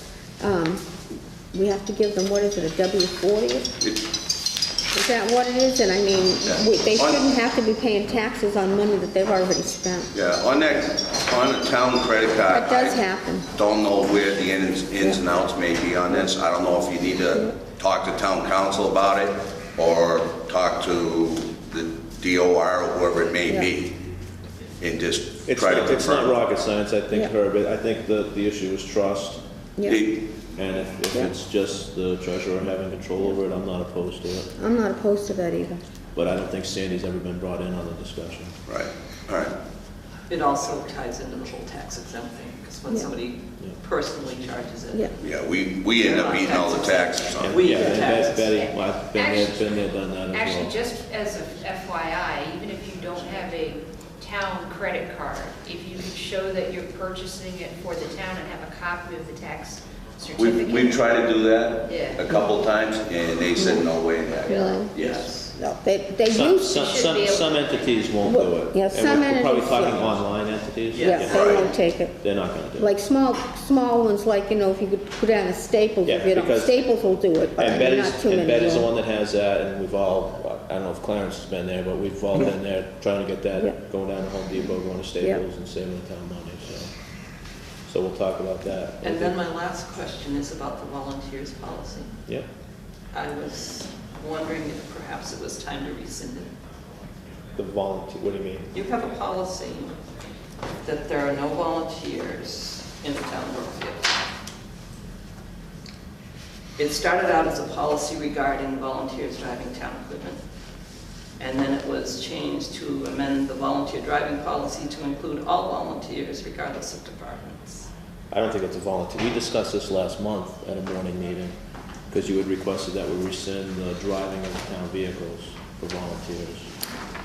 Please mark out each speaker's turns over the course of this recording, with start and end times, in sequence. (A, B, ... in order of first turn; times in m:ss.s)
0:00.4-0:00.9 A
0:01.5-0:03.7 A
0:03.8-0:04.1 B
0:04.9-0:10.1 A
0:06.5-0:07.2 B
0:10.1-0:24.0 B
0:12.4-0:13.5 A
0:24.8-0:26.4 B
0:25.4-0:29.4 C
0:29.8-0:30.1 A
0:29.8-0:30.3 B
0:30.6-0:34.5 C
0:34.6-0:35.8 A
0:36.1-0:38.6 C
0:38.7-0:39.5 B
0:40.3-0:45.4 D
0:45.2-0:47.8 B
0:45.9-0:48.5 D
0:47.4-0:50.7 C
0:47.8-1:01.1 E
1:00.4-1:05.3 B
1:01.8-1:02.5 E
1:02.3-1:02.6 A
1:03.6-1:03.8 A
1:04.4-1:04.9 A
1:04.9-1:05.5 D
1:05.5-1:06.8 A
1:06.3-1:11.5 C
1:06.6-1:08.1 E
1:08.2-1:10.2 A
1:10.9-1:11.7 D
1:11.0-1:12.2 A
1:11.2-1:11.7 B
1:12.2-1:12.9 C
1:12.8-1:18.9 A
1:16.0-1:16.8 C
1:17.6-1:26.9 C
1:27.8-1:29.3 C
1:29.0-1:32.2 D
1:33.1-1:36.5 D
1:37.6-1:38.7 C
1:38.7-1:40.0 D
1:40.8-1:44.1 D
1:46.8-1:50.4 D
1:51.4-1:57.9 D
1:58.3-2:01.6 C
2:02.1-2:06.7 C